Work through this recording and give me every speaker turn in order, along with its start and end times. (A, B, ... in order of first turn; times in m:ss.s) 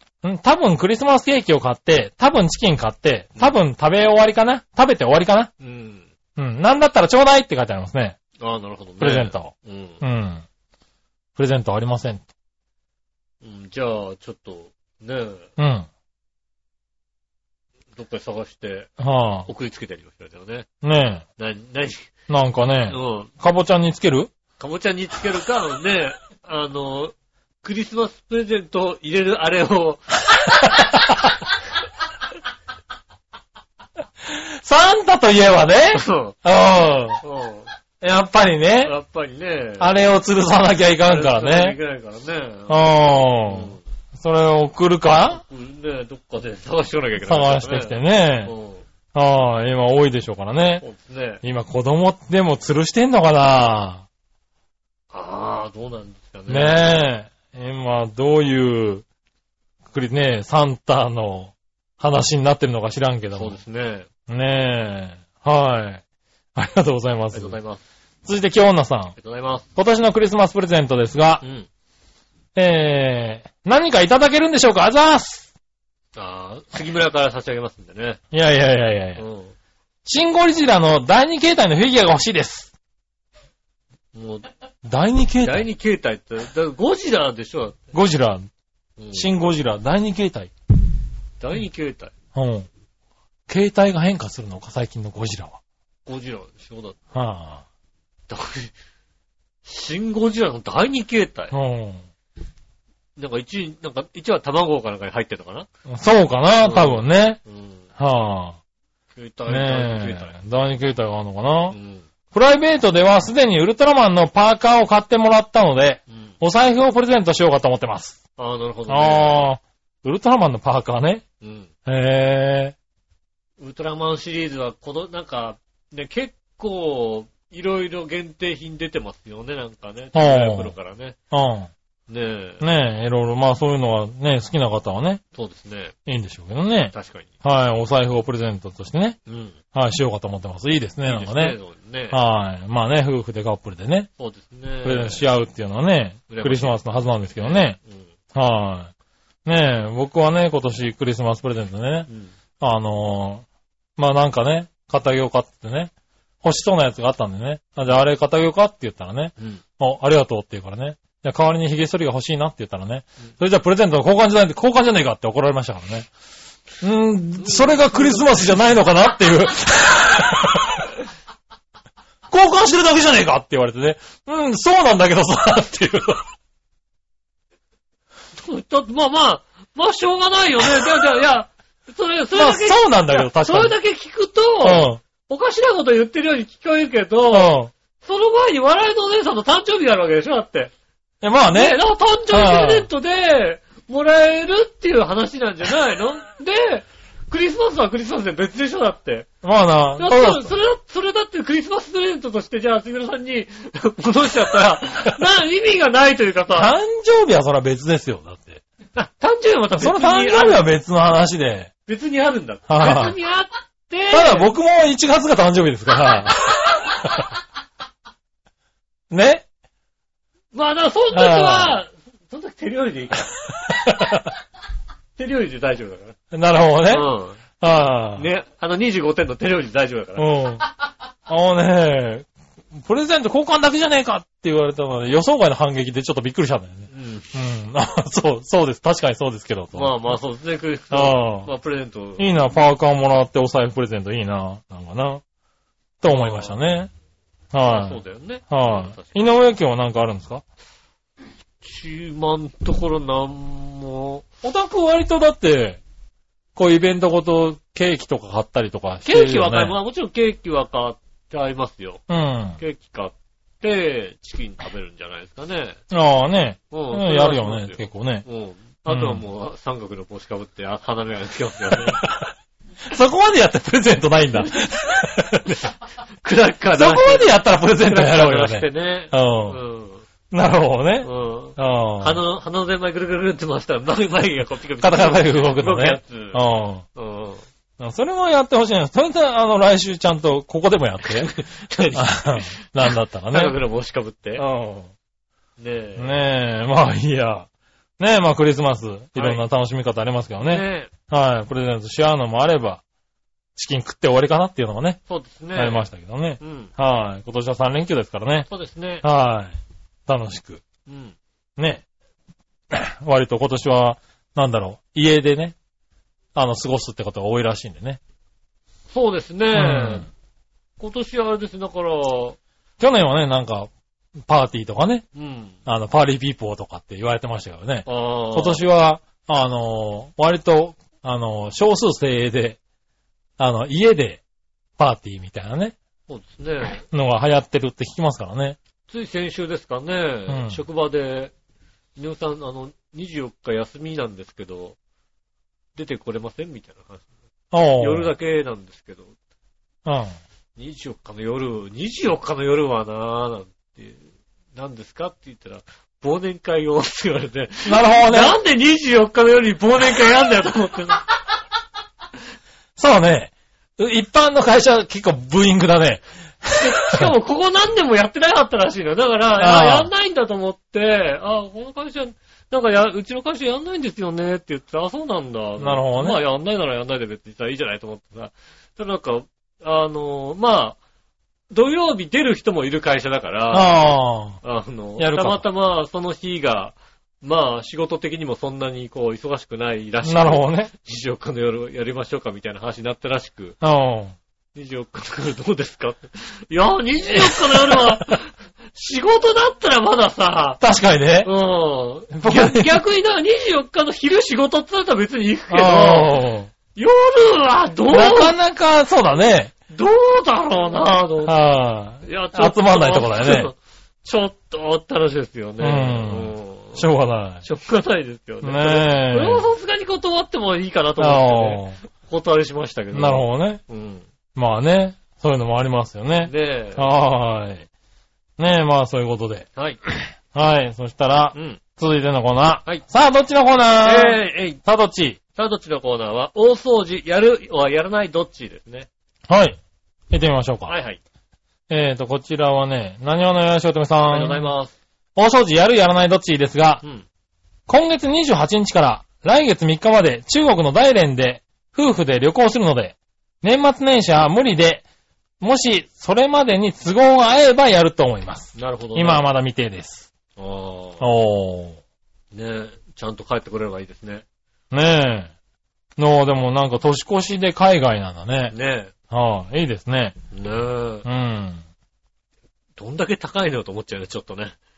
0:00.2-0:05.5 A
0:05.6-0:06.1 B
0:06.4-0:08.2 A
0:08.4-0:10.0 B
0:09.0-0:10.4 A
0:11.4-0:12.2 A
0:13.4-0:15.5 B
0:15.6-0:15.9 A
0:18.0-0:18.9 B
0:19.0-0:19.5 A
0:19.5-0:20.7 B
0:20.8-0:21.2 A
0:21.4-0:22.1 B
0:22.3-0:24.3 A
0:22.9-0:23.3 B
0:24.6-0:30.1 B
0:30.5-0:31.3 A
0:34.2-0:37.2 A
0:35.9-0:36.4 B
0:37.2-0:37.7 B
0:38.0-0:38.9 A
0:38.8-0:40.0 B
0:39.8-0:41.8 A
0:41.0-0:43.8 B
0:42.7-0:45.4 A
0:45.2-0:48.8 B
0:47.2-0:48.5 A
0:49.1-0:50.8 A
0:50.8-0:51.4 B
0:51.4-0:54.0 A
0:55.1-0:57.0 B
0:56.5-0:59.0 A
0:59.9-1:03.6 A
1:03.4-1:04.1 B
1:04.3-1:06.0 A
1:06.6-1:07.6 A
1:07.3-1:07.8 B
1:08.2-1:09.2 A
1:09.2-1:09.7 B
1:09.8-1:11.4 A
1:11.4-1:11.7 B
1:12.6-1:15.5 A
1:16.2-1:18.2 B
1:18.3-1:19.2 A
1:19.2-1:19.5 B
1:20.0-1:22.7 A
1:24.2-1:24.5 B
1:24.8-1:25.7 A
1:25.4-1:27.8 B
1:27.9-1:28.5 A
1:29.0-1:29.4 B
1:29.1-1:30.5 A
1:31.4-1:32.1 B
1:32.3-1:32.7 A
1:33.5-1:35.6 A
1:36.1-1:37.0 B
1:37.1-1:37.6 A
1:38.3-1:38.7 B
1:39.6-1:41.5 B
1:41.5-1:42.0 A
1:43.2-1:45.7 B
1:45.9-1:47.4 A
1:46.6-1:47.8 B
1:48.0-1:48.6 A
1:49.1-1:50.4 B
1:49.5-1:51.8 A
1:51.7-1:52.0 B
1:52.3-1:58.2 A
1:58.4-1:59.5 B
1:58.9-2:01.2 A
2:01.4-2:01.7 B
2:01.9-2:02.8 A
2:03.6-2:11.2 B
2:10.2-2:10.7 A
2:11.3-2:11.7 A
2:12.1-2:12.7 B
2:12.6-2:15.2 A
2:15.4-2:15.9 B
2:16.1-2:19.2 A
2:16.9-2:17.3 B
2:19.3-2:19.6 B
2:19.7-2:21.6 A
2:21.0-2:22.2 B
2:22.1-2:24.1 A
2:24.2-2:25.3 B
2:24.8-2:27.8 A
2:26.3-2:26.8 B
2:27.4-2:28.1 B
2:28.3-2:28.9 A
2:29.4-2:33.4 A
2:34.0-2:46.1 A
2:46.8-2:50.9 A
2:47.5-2:48.4 B
2:52.3-2:56.2 A
2:58.4-3:10.7 B
3:02.4-3:03.8 A
3:04.6-3:05.0 A
3:07.3-3:07.7 A
3:11.2-3:12.9 A
3:11.5-3:19.3 B
3:19.4-3:20.5 A
3:20.0-3:26.7 B
3:26.6-3:28.6 A
3:29.0-3:30.6 B
3:29.8-3:31.7 A
3:31.9-3:34.5 B
3:32.7-3:33.2 A
3:34.1-3:37.3 A
3:39.1-3:39.4 A
3:40.5-3:43.3 B
3:41.1-3:41.8 A
3:43.6-3:44.3 A
3:45.2-3:46.2 B
3:46.3-3:47.1 A
3:46.9-3:47.4 B
3:47.6-3:48.3 A
3:48.2-3:50.4 B
3:50.2-3:50.6 A
3:51.3-4:00.2 A
3:56.9-3:57.3 B
3:59.8-4:02.3 B
4:00.9-4:01.5 A
4:02.2-4:05.2 A
4:06.0-4:06.9 A
4:06.1-4:06.6 B
4:07.5-4:10.4 A
4:07.6-4:09.3 B
4:11.6-4:14.2 B
4:14.4-4:15.8 A
4:16.6-4:19.8 A
4:19.0-4:22.0 B
4:22.1-4:22.6 A
4:22.6-4:25.8 B
4:25.9-4:28.2 A
4:26.7-4:32.0 B
4:28.9-4:29.2 A
4:31.9-4:32.3 A
4:32.8-4:35.7 A
4:36.2-4:37.3 B
4:36.8-4:39.6 A
4:37.8-4:40.0 B
4:40.3-4:42.2 A
4:41.0-4:46.4 B
4:44.8-4:46.8 A
4:47.0-4:47.5 B
4:47.8-4:51.3 A
4:51.1-4:52.6 B
4:52.0-4:53.6 A
4:53.3-4:54.4 B
4:54.4-4:54.9 A
4:55.6-4:56.2 B
4:56.0-4:57.5 A
4:58.0-5:02.8 A
4:59.2-4:59.4 B
5:00.4-5:00.9 B
5:03.6-5:05.0 A
5:05.1-5:06.7 B
5:05.6-5:08.5 A
5:08.5-5:09.0 B
5:09.0-5:10.6 A
5:10.9-5:11.2 B
5:11.6-5:11.8 A
5:12.7-5:15.6 A
5:16.4-5:18.0 A
5:18.9-5:20.1 B
5:19.6-5:20.1 A
5:20.8-5:22.4 B
5:22.8-5:23.7 A
5:24.3-5:25.1 A
5:25.1-5:25.6 B
5:25.7-5:32.6 A
5:27.9-5:28.6 B
5:33.4-5:34.2 A
5:34.8-5:35.8 A
5:36.1-5:36.8 B
5:36.9-5:38.6 A
5:38.9-5:41.3 B
5:40.3-5:40.6 A
5:42.0-5:44.8 B
5:45.8-5:47.0 B
5:47.5-5:48.1 A
5:47.8-5:49.1 B
5:49.8-5:50.2 A
5:50.6-6:01.1 B
5:57.7-5:58.4 A
6:02.8-6:07.1 A
6:06.5-6:20.8 B
6:09.4-6:09.9 A
6:15.6-6:16.2 A
6:21.5-6:33.6 B
6:23.5-6:24.4 A
6:25.0-6:25.4 A
6:30.0-6:30.7 A
6:33.6-6:34.2 A
6:34.6-6:40.6 B
6:37.1-6:38.0 A
6:40.6-6:41.3 A
6:41.2-6:46.2 B
6:42.1-6:42.8 A
6:45.5-6:46.5 A
6:46.8-6:48.4 B
6:47.9-6:49.5 A
6:49.7-6:51.4 B
6:51.2-6:53.5 A
6:52.0-6:56.8 B
6:55.6-6:57.4 A
6:57.4-7:04.1 B
6:58.4-6:59.5 A
7:01.0-7:01.8 A
7:02.9-7:03.6 A
7:04.4-7:07.7 A
7:06.2-7:06.9 B
7:08.4-7:09.5 A
7:10.3-7:15.2 A
7:11.3-7:11.6 B
7:13.8-7:14.6 B
7:15.4-7:18.9 B
7:19.3-7:19.6 A
7:20.1-7:20.7 A
7:20.7-7:21.0 B
7:21.7-7:24.5 A
7:24.1-7:24.7 B
7:25.2-7:26.8 A
7:27.7-7:34.8 A
7:35.4-7:40.1 A
7:38.6-7:39.3 B
7:40.4-7:41.1 B
7:41.0-7:41.8 A
7:42.3-7:44.2 B
7:44.7-7:45.3 A
7:46.0-7:48.6 A
7:48.5-7:48.9 B
7:49.1-7:50.2 A
7:50.3-7:51.1 B
7:51.0-7:51.6 A
7:52.8-7:54.6 B